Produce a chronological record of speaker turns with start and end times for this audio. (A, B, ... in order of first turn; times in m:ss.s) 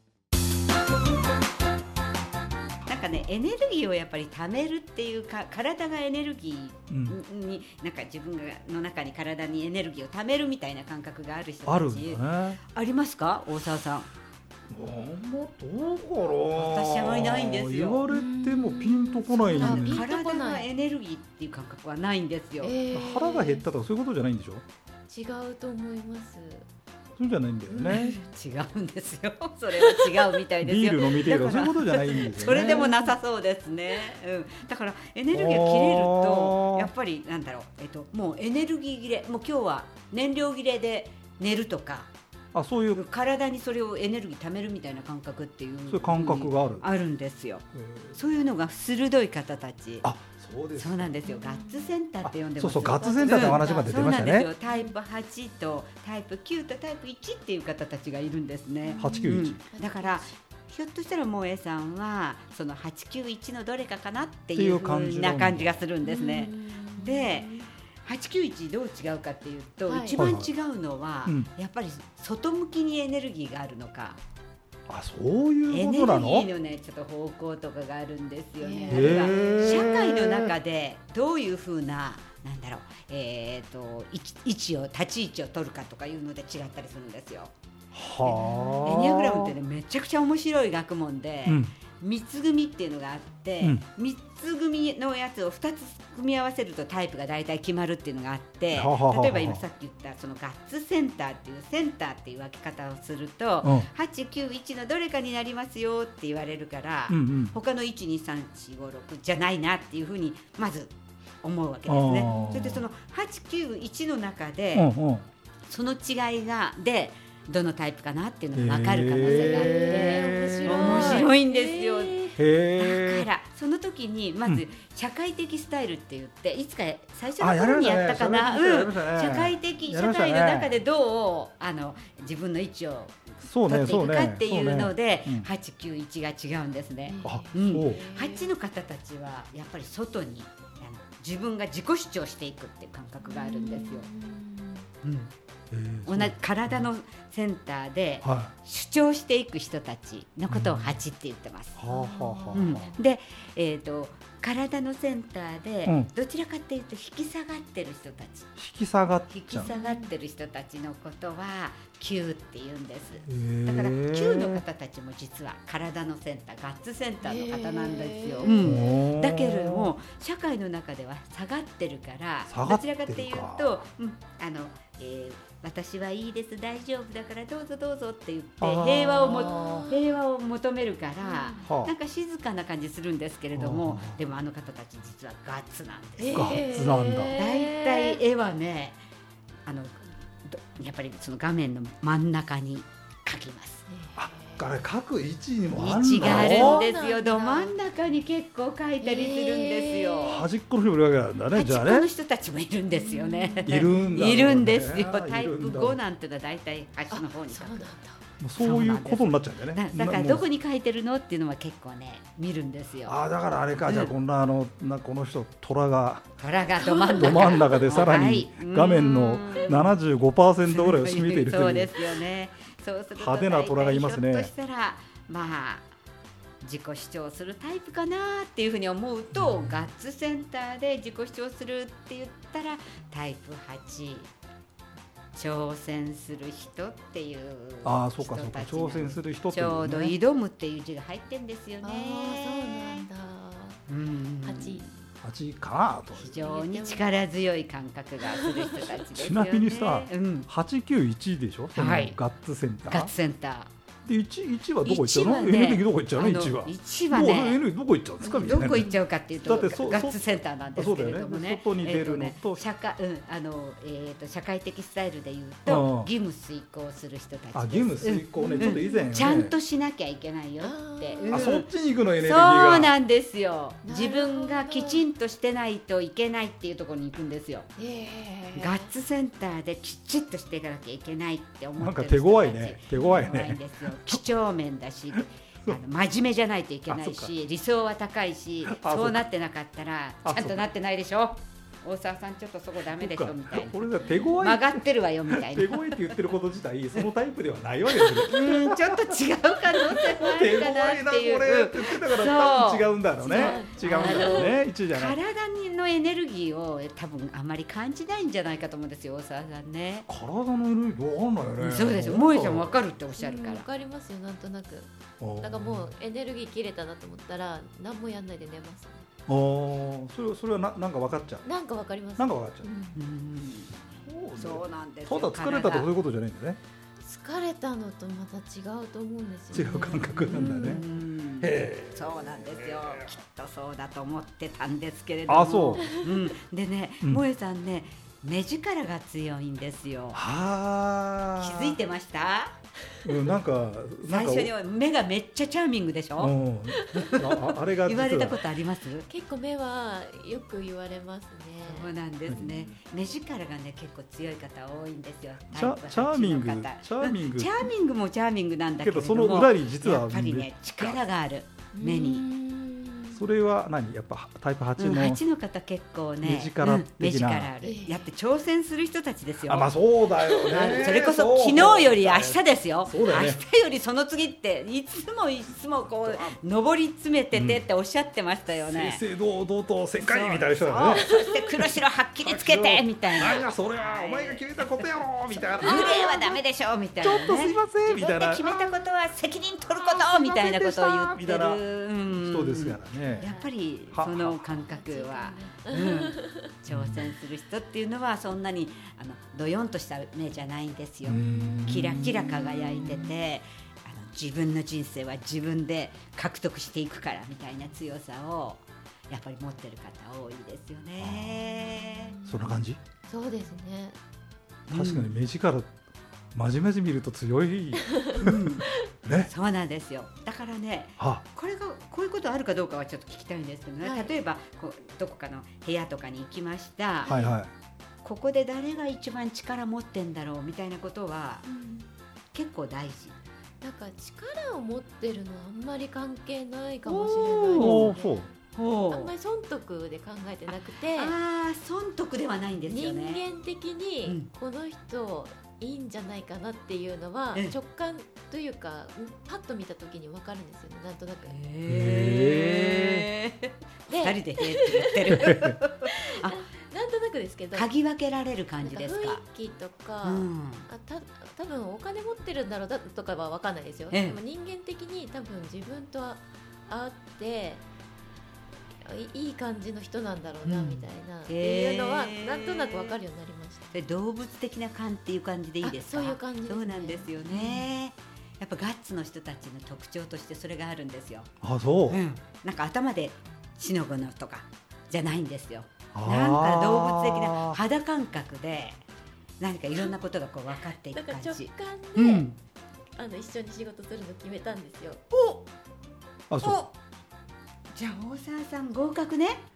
0:02.8-0:14.1 A
0:06.9-0:07.2 B
0:11.6-0:12.6 B
0:14.7-0:20.1 B
0:16.5-0:18.0 A
0:18.1-0:20.7 C
0:19.5-0:22.8 A
0:22.6-0:23.6 C
0:22.9-0:24.6 B
0:25.1-0:26.6 C
0:27.2-0:28.2 B
0:27.7-0:28.2 C
0:27.9-0:42.1 A
0:29.8-0:30.4 C
0:30.6-0:32.9 B
0:32.2-0:33.2 C
0:35.3-0:36.9 B
0:42.5-0:43.0 B
0:42.9-0:50.1 A
0:45.9-0:46.8 B
0:47.7-0:48.2 B
0:50.0-0:51.2 B
0:50.8-1:14.2 A
0:51.2-0:51.9 C
0:52.2-0:54.5 B
0:52.8-0:54.9 C
0:58.8-1:00.3 C
0:59.0-0:59.6 B
1:04.5-1:05.8 B
1:06.0-1:07.7 C
1:09.9-1:10.2 C
1:10.2-1:10.5 B
1:14.9-1:16.5 B
1:15.7-1:27.5 A
1:18.6-1:19.9 C
1:18.9-1:20.5 B
1:27.9-1:29.6 B
1:28.2-1:28.9 C
1:28.8-1:54.9 A
1:31.4-1:31.7 B
1:38.7-1:39.6 B
1:43.6-1:43.9 B
1:47.1-1:47.5 B
1:51.9-1:52.8 B
1:52.2-1:52.6 C
1:54.7-1:55.2 B
1:55.7-2:02.1 A
1:58.5-2:01.3 B
1:59.2-2:02.4 C
2:02.4-2:03.3 B
2:02.8-2:24.1 A
2:07.4-2:10.8 B
2:13.4-2:15.5 B
2:17.0-2:18.5 C
2:17.2-2:18.0 B
2:23.2-2:24.9 C
2:25.0-2:25.3 A
2:25.7-2:26.9 B
2:26.0-2:31.8 A
2:28.2-2:28.5 B
2:30.5-2:31.0 B
2:31.8-2:32.9 B
2:31.9-2:33.0 C
2:32.5-2:38.5 A
2:35.8-2:36.1 B
2:38.6-2:39.7 B
2:39.3-3:06.6 A
2:39.6-2:40.1 C
2:43.3-2:44.6 B
2:47.2-2:48.9 C
2:48.6-2:49.9 B
2:52.5-2:53.8 B
2:58.6-2:59.9 B
2:58.8-3:00.2 C
3:01.2-3:01.6 C
3:01.6-3:01.9 B
3:03.5-3:04.2 B
3:06.2-3:08.2 C
3:06.3-3:07.4 B
3:07.4-3:09.0 A
3:09.6-3:13.8 A
3:13.9-3:14.8 C
3:14.2-3:16.8 B
3:15.7-3:20.4 A
3:16.2-3:17.8 C
3:19.0-3:20.5 C
3:20.2-3:22.1 B
3:21.5-3:27.9 A
3:22.9-3:24.4 C
3:23.6-3:26.0 B
3:27.1-3:28.2 C
3:28.4-3:30.5 B
3:28.6-3:33.2 A
3:33.0-3:36.3 B
3:33.8-3:34.1 A
3:36.4-3:39.9 A
3:36.8-3:37.9 C
3:37.1-3:42.2 B
3:38.8-3:39.6 C
3:40.7-3:45.9 A
3:43.1-3:44.5 B
3:46.6-3:54.3 A
3:49.4-3:49.8 B
3:55.3-4:03.0 A
3:57.8-4:00.2 B
4:01.8-4:03.8 C
4:03.9-4:05.0 A
4:04.4-4:04.8 C
4:05.2-4:06.4 B
4:06.1-4:10.5 A
4:06.3-4:07.1 C
4:09.1-4:13.1 B
4:11.7-4:12.2 A
4:12.8-4:13.7 A
4:14.0-4:22.6 B
4:14.8-4:17.6 A
4:18.2-4:19.0 C
4:18.4-4:37.7 A
4:25.6-4:26.1 B
4:27.5-4:29.5 B
4:28.3-4:29.5 C
4:30.6-4:31.5 C
4:31.3-4:32.9 B
4:33.8-4:35.0 C
4:37.8-4:38.9 C
4:38.5-4:56.0 A
4:41.8-4:44.2 B
4:42.9-4:43.3 C
4:45.2-4:45.8 B
4:46.9-4:47.3 B
4:48.6-4:49.2 B
4:50.2-4:50.6 B
4:52.8-4:59.2 B
4:54.0-4:54.3 C
4:57.9-5:10.1 A
4:59.7-5:05.2 B
5:03.2-5:04.5 C
5:10.1-5:12.7 B
5:11.6-5:13.7 A
5:13.2-5:19.0 C
5:15.2-5:15.9 B
5:19.3-5:21.5 B
5:21.4-5:23.0 C
5:22.2-5:22.7 B
5:22.9-5:25.9 A
5:24.0-5:26.6 B
5:27.0-5:30.9 C
5:29.5-5:30.8 B
5:30.3-5:40.2 A
5:31.4-5:33.1 B
5:35.3-5:35.8 B
5:35.8-5:36.2 C
5:40.1-5:41.8 B
5:41.4-5:42.6 A
5:43.0-5:44.5 B
5:44.0-5:46.3 A
5:46.2-5:48.4 B
5:46.7-5:47.1 C
5:46.9-5:49.1 A
5:49.1-5:52.7 C
5:51.6-6:02.2 A
5:55.5-5:57.7 B
5:58.8-6:01.0 B
6:01.7-6:03.2 C
6:03.1-6:05.2 B
6:04.8-6:09.7 A
6:06.2-6:07.5 B
6:07.6-6:08.1 C
6:09.5-6:13.4 B
6:10.2-6:10.9 C
6:10.5-6:19.0 A
6:15.8-6:16.4 B
6:17.3-6:17.6 B
6:18.5-6:26.4 B
6:20.0-6:52.2 A
6:20.8-6:21.4 C
6:25.6-6:26.0 C
6:27.0-6:28.8 B
6:29.7-6:33.2 B
6:33.1-6:33.5 C
6:33.9-6:34.6 B
6:34.5-6:36.5 C
6:36.7-6:37.0 B
6:41.0-6:43.1 B
6:41.1-6:43.0 C
6:51.0-6:51.4 B
6:51.6-6:52.5 C
6:52.2-6:52.8 B
6:53.1-6:54.0 C
6:54.7-6:55.1 A
6:54.7-6:55.7 B
6:56.3-6:59.3 B
6:57.8-6:58.2 C
6:58.2-7:07.1 A
7:03.8-7:04.1 C
7:07.0-7:07.4 C
7:07.1-7:07.5 B
7:08.0-7:11.5 A
7:11.5-7:11.8 C
7:12.3-7:13.2 A
7:13.6-7:18.3 C
7:16.9-7:18.3 B
7:17.5-7:17.9 A
7:18.5-7:19.1 A
7:18.9-7:21.1 C
7:20.9-7:23.2 A
7:22.7-7:31.4 C
7:24.0-7:24.3 A
7:31.2-7:36.4 A
7:31.7-7:33.0 B
7:33.9-7:37.7 C
7:35.2-7:35.5 B
7:37.5-7:39.2 A
7:38.6-7:47.6 C
7:40.0-7:40.7 A
7:43.9-7:44.2 A
7:48.8-7:53.8 C
7:50.4-7:53.0 A
7:53.7-8:01.3 A
7:55.6-7:57.7 C
8:01.4-8:02.0 B
8:01.9-8:08.8 A
8:05.9-8:07.6 B
8:09.4-8:12.4 A
8:10.9-8:12.3 C
8:13.0-8:15.0 C
8:15.1-8:15.4 A
8:16.3-8:16.6 B
8:16.4-8:16.7 A
8:17.7-8:19.4 A